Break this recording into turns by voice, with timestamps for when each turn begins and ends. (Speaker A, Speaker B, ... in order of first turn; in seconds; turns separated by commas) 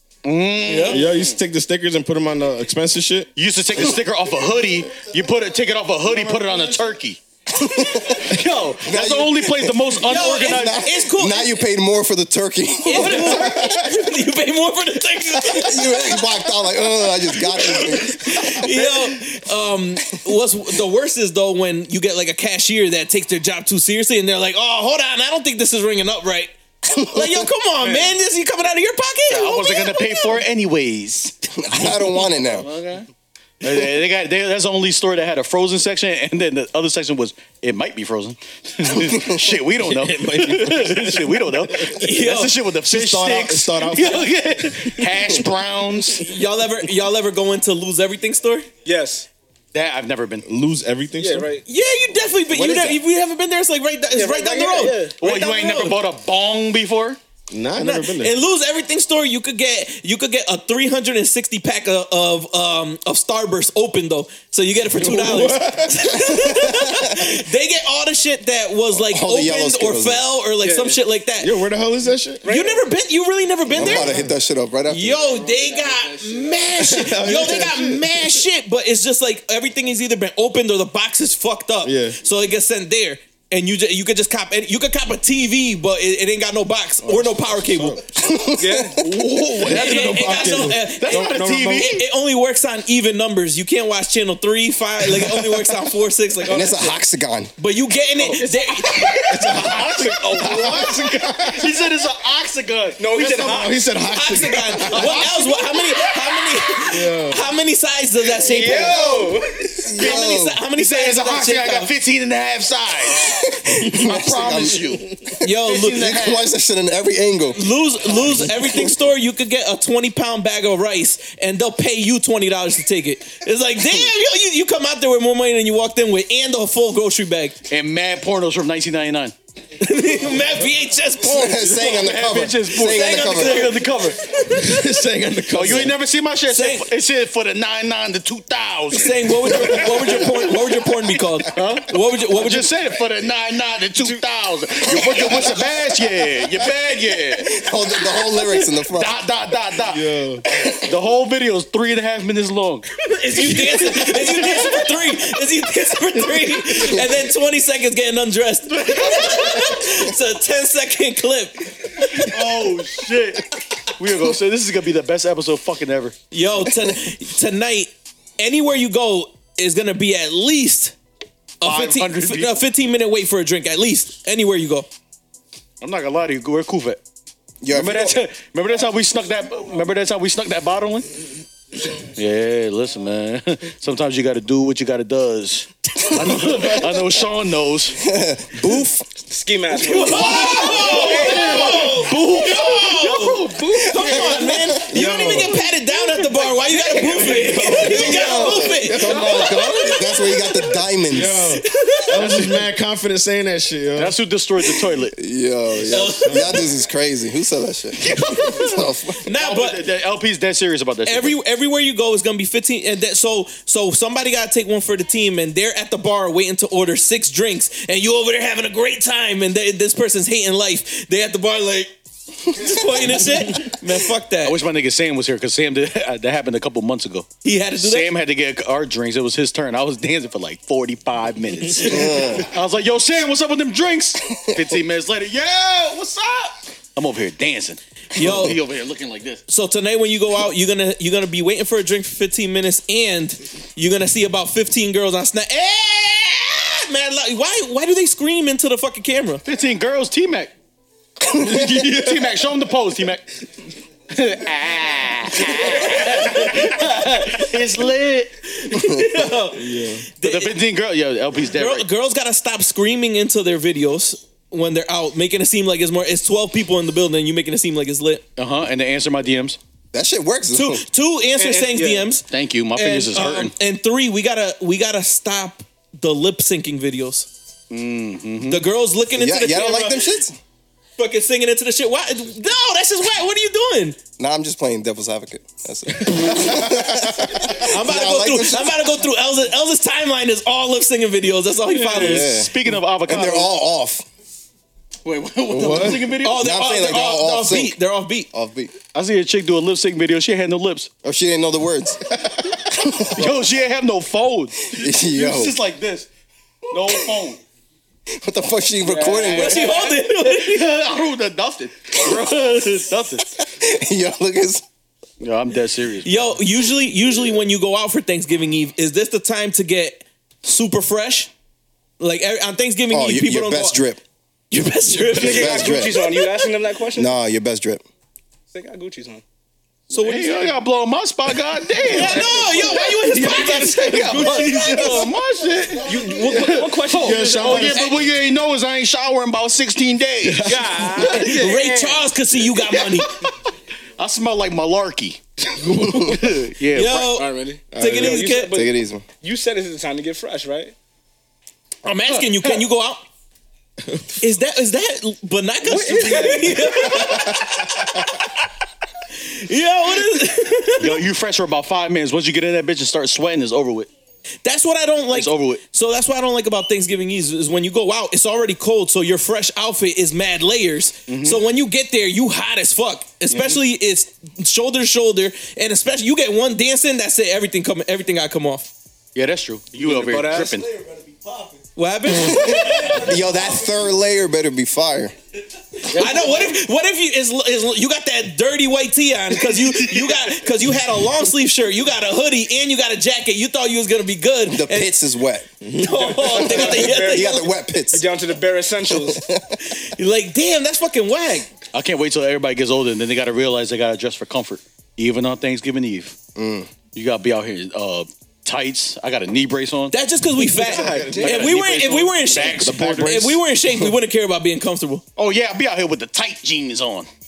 Speaker A: 0.2-1.4, Speaker B: 0.7-1.1, Speaker C: 0.9-3.3, Speaker A: 3.4-7.2, Speaker C: 6.0-6.9, Speaker D: 7.5-14.0, Speaker A: 8.1-10.8, Speaker B: 10.0-11.6, Speaker B: 12.8-16.6, Speaker A: 12.9-13.8, Speaker D: 15.3-18.9, Speaker B: 17.4-30.4, Speaker D: 26.9-27.5, Speaker A: 29.3-31.3, Speaker D: 31.6-32.7, Speaker A: 32.4-33.1, Speaker A: 33.6-46.3, Speaker C: 39.8-42.0, Speaker B: 41.9-42.6, Speaker C: 42.8-45.1, Speaker B: 46.2-48.7, Speaker E: 48.8-49.3, Speaker A: 49.7-50.5, Speaker C: 50.5-51.5, Speaker E: 51.2-51.6, Speaker B: 51.7-56.0, Speaker E: 54.1-55.1, Speaker A: 55.2-57.2, Speaker C: 57.5-58.4, Speaker B: 57.8-71.6, Speaker C: 65.0-66.4, Speaker D: 68.9-70.3, Speaker E: 70.6-71.0, Speaker C: 71.4-72.5, Speaker E: 72.4-72.8, Speaker B: 72.4-74.2, Speaker D: 73.7-75.2, Speaker C: 73.8-74.3, Speaker B: 74.8-88.0, Speaker E: 75.6-76.6, Speaker C: 76.8-78.4, Speaker C: 81.8-82.2, Speaker C: 87.0-88.4, Speaker D: 88.2-89.0, Speaker E: 88.6-89.2, Speaker A: 88.9-92.0, Speaker C: 89.6-91.8, Speaker B: 89.7-97.0, Speaker C: 95.1-95.6, Speaker D: 96.4-97.5, Speaker B: 97.6-99.3, Speaker A: 98.3-103.7, Speaker E: 98.5-100.9, Speaker C: 99.3-101.8, Speaker E: 103.0-103.9, Speaker C: 103.4-105.3, Speaker B: 104.0-109.2, Speaker A: 104.9-105.5, Speaker C: 106.9-107.4, Speaker E: 108.4-109.9, Speaker D: 109.8-110.6, Speaker B: 109.9-111.9, Speaker A: 110.8-113.3, Speaker D: 113.1-115.0, Speaker A: 114.0-116.5, Speaker B: 115.4-116.1, Speaker D: 115.9-118.9, Speaker B: 117.5-127.6, Speaker D: 123.8-124.1, Speaker A: 127.7-129.3, Speaker B: 129.8-132.0, Speaker D: 131.2-133.8, Speaker A: 131.7-134.2, Speaker B: 132.8-134.9, Speaker C: 134.5-136.0, Speaker A: 135.5-139.9, Speaker B: 136.5-136.9, Speaker B: 138.9-142.7, Speaker A: 141.5-147.6, Speaker D: 147.3-149.1, Speaker A: 148.2-150.0, Speaker C: 149.9-150.4, Speaker A: 150.7-152.8, Speaker B: 153.0-162.3, Speaker A: 153.5-154.4, Speaker D: 156.8-157.0, Speaker A: 158.7-159.7, Speaker A: 162.1-166.1, Speaker B: 166.3-170.9, Speaker B: 171.6-174.9, Speaker A: 171.6-172.6, Speaker A: 175.8-177.0, Speaker D: 177.6-178.2, Speaker A: 177.7-181.1, Speaker A: 182.0-188.0, Speaker D: 188.0-189.1, Speaker E: 189.2-192.1, Speaker A: 189.7-194.3, Speaker B: 189.8-200.7, Speaker D: 193.8-194.8, Speaker C: 194.8-195.7, Speaker C: 197.1-199.9, Speaker D: 197.6-201.6, Speaker C: 201.1-204.2, Speaker B: 201.6-202.4, Speaker A: 202.1-202.6, Speaker A: 203.9-205.1, Speaker D: 205.1-209.2, Speaker C: 205.8-206.7, Speaker B: 205.9-206.7, Speaker A: 208.0-211.4, Speaker B: 209.2-209.8, Speaker B: 211.0-221.9, Speaker B: 222.4-224.6, Speaker A: 224.4-227.3, Speaker B: 227.4-228.1, Speaker A: 227.8-239.4, Speaker B: 231.7-232.4, Speaker D: 231.8-232.4, Speaker B: 238.2-238.6, Speaker B: 239.5-249.4, Speaker A: 249.4-250.5, Speaker A: 251.3-253.3, Speaker A: 254.1-258.3, Speaker B: 255.8-256.7, Speaker B: 258.5-260.6, Speaker D: 258.7-259.1, Speaker C: 259.5-260.1, Speaker A: 260.2-261.9, Speaker B: 261.5-268.2, Speaker A: 268.4-269.6, Speaker D: 269.9-270.8, Speaker B: 270.5-277.3, Speaker E: 271.4-272.1, Speaker A: 272.3-273.5, Speaker A: 277.7-278.6, Speaker B: 278.5-280.2, Speaker D: 279.1-280.4, Speaker B: 281.0-284.0, Speaker D: 284.2-289.0, Speaker C: 286.0-287.3, Speaker B: 287.6-292.4, Speaker A: 291.7-293.5, Speaker D: 291.9-294.0, Speaker A: 295.0-296.4, Speaker C: 295.5-296.2, Speaker B: 296.2-298.3, Speaker D: 296.3-297.8, Speaker D: 298.3-298.7, Speaker A: 298.9-300.9, Speaker D: 301.0-302.1, Speaker D: 302.6-303.3, Speaker A: 303.1-306.1, Speaker D: 304.7-305.6, Speaker A: 306.7-307.4, Speaker D: 308.1-309.7, Speaker A: 308.9-313.3, Speaker E: 308.9-309.5, Speaker B: 309.3-310.7, Speaker D: 313.4-314.6, Speaker A: 315.2-316.3, Speaker B: 316.0-321.3, Speaker B: 322.0-323.8, Speaker D: 322.9-324.0, Speaker B: 324.5-326.5, Speaker E: 325.0-327.1, Speaker D: 325.1-326.1, Speaker D: 326.9-327.8, Speaker E: 328.5-329.2, Speaker A: 329.9-341.6, Speaker B: 330.0-330.5, Speaker B: 331.9-335.1, Speaker E: 331.9-332.9, Speaker E: 334.3-335.0, Speaker F: 335.4-336.4, Speaker E: 335.7-337.8, Speaker B: 335.8-336.6, Speaker C: 336.3-337.9, Speaker C: 340.2-341.1, Speaker E: 340.4-342.0, Speaker B: 341.0-343.1, Speaker A: 342.4-343.4, Speaker A: 344.0-345.2, Speaker C: 345.6-346.4, Speaker A: 345.8-347.2, Speaker B: 346.7-348.6, Speaker E: 347.0-350.7, Speaker C: 347.7-348.3, Speaker D: 348.5-349.0, Speaker B: 351.8-353.0, Speaker A: 352.1-352.6, Speaker C: 353.9-354.1, Speaker B: 354.2-358.0, Speaker E: 355.6-356.6, Speaker A: 355.7-356.6, Speaker C: 356.9-357.6, Speaker B: 359.2-361.0, Speaker A: 360.8-363.9, Speaker B: 364.4-378.7, Speaker A: 365.1-365.6, Speaker A: 371.1-371.4, Speaker A: 379.1-380.7, Speaker E: 379.8-380.6, Speaker F: 380.1-381.6, Speaker B: 381.8-383.1, Speaker D: 382.1-385.1, Speaker F: 382.5-383.9, Speaker E: 383.1-383.5, Speaker B: 385.9-395.0, Speaker A: 385.9-386.3, Speaker E: 386.0-386.3, Speaker D: 394.5-395.5, Speaker C: 395.6-396.2, Speaker B: 395.8-397.5, Speaker E: 396.0-399.3, Speaker D: 396.4-398.1, Speaker D: 398.9-399.6, Speaker B: 399.6-401.5, Speaker A: 401.7-406.1, Speaker D: 406.4-406.7, Speaker A: 406.9-409.9, Speaker B: 409.9-415.0, Speaker E: 410.6-411.2, Speaker C: 410.7-411.5, Speaker A: 411.0-413.4, Speaker C: 412.5-413.4, Speaker A: 415.2-417.1